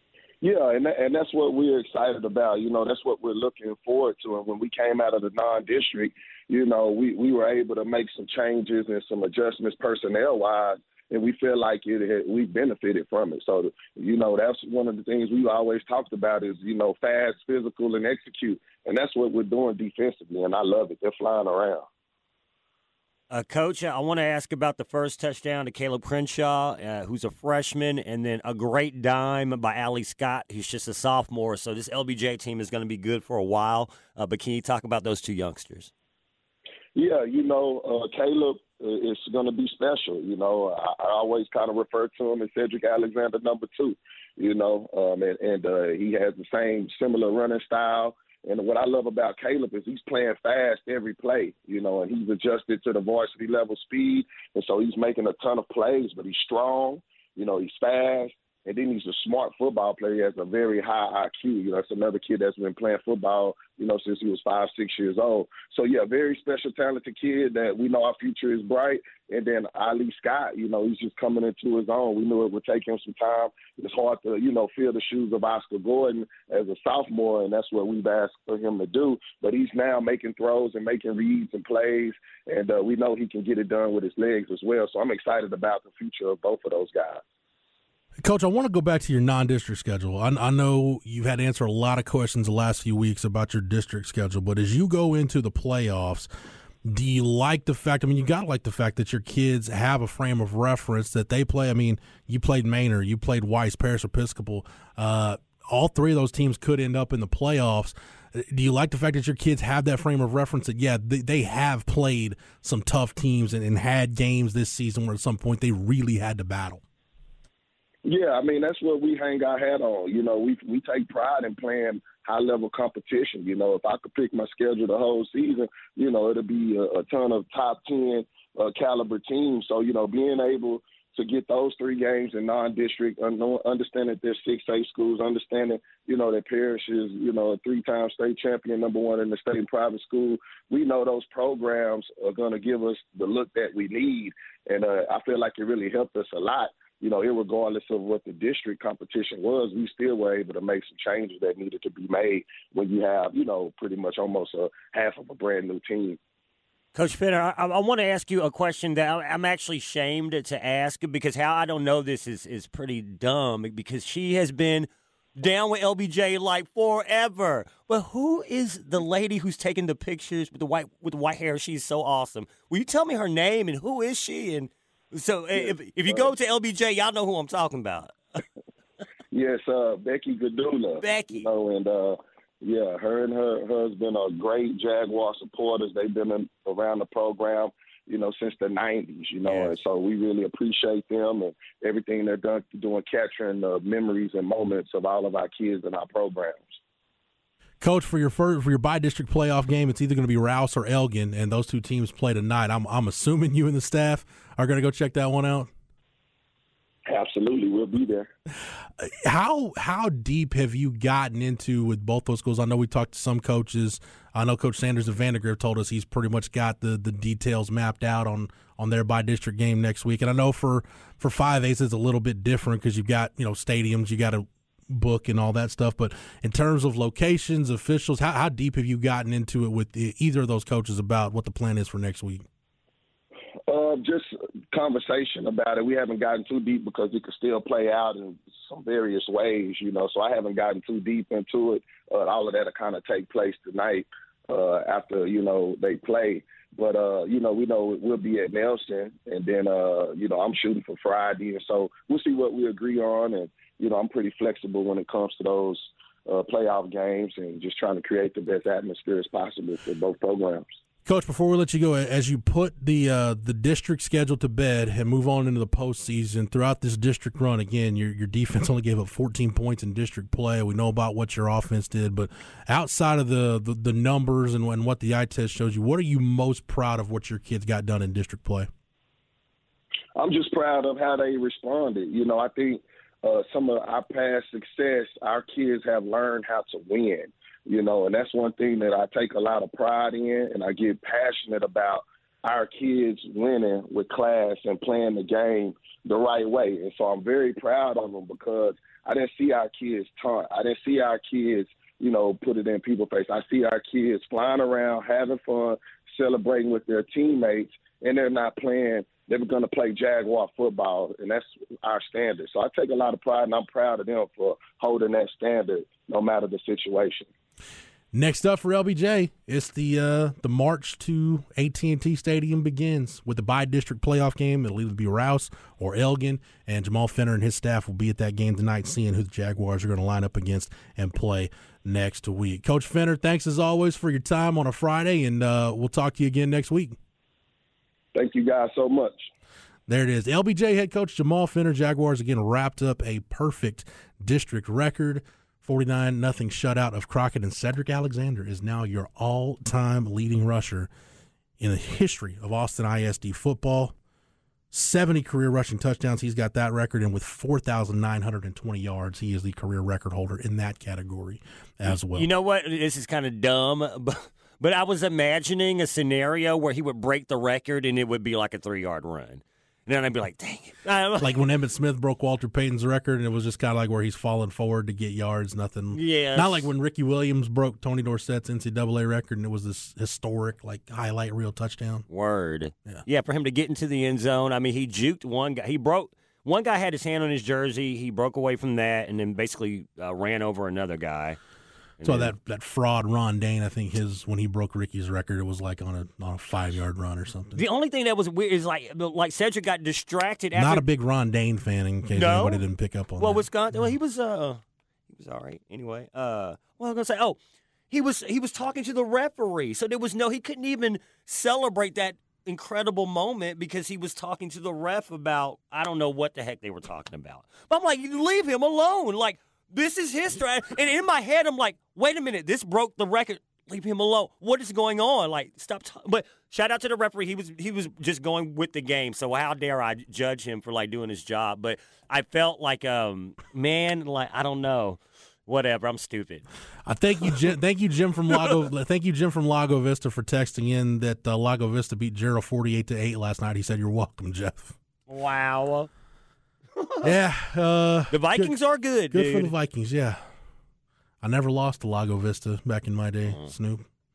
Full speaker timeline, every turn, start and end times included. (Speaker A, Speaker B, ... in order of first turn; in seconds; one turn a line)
Speaker A: 0.4-21.9
Speaker B: 23.3-35.9
Speaker A: 36.9-87.2
Speaker C: 88.2-96.3
Speaker C: 96.8-116.8
Speaker A: 118.0-156.2
Speaker B: 156.9-178.1
Speaker A: 175.5-176.3
Speaker A: 179.3-196.8
Speaker B: 181.0-181.5
Speaker B: 189.4-189.8
Speaker C: 197.8-205.7
Speaker A: 207.1-208.3
Speaker C: 209.0-232.4
Speaker A: 233.7-260.6
Speaker C: 261.0-278.7
Speaker A: 280.1-317.3
Speaker C: 318.1-337.0
Speaker A: 338.1-339.3
Speaker C: 339.9-350.9
Speaker C: 351.6-353.9
Speaker C: 354.7-362.3
Speaker B: 361.8-371.4
Speaker C: 371.2-382.1
Speaker B: 375.9-376.7
Speaker B: 382.1-391.4
Speaker B: 392.0-392.3
Speaker C: 392.0-397.6
Speaker B: 397.5-400.8
Speaker C: 400.5-403.4
Speaker B: 402.1-402.6
Speaker B: 403.2-407.4
Speaker B: 407.9-436.4
Speaker C: 436.9-444.8
Speaker B: 445.1-445.9
Speaker B: 446.8-447.1
Speaker C: 447.0-448.6
Speaker B: 448.1-449.5
Speaker C: 449.1-450.2
Speaker C: 451.2-453.9
Speaker B: 453.3-453.5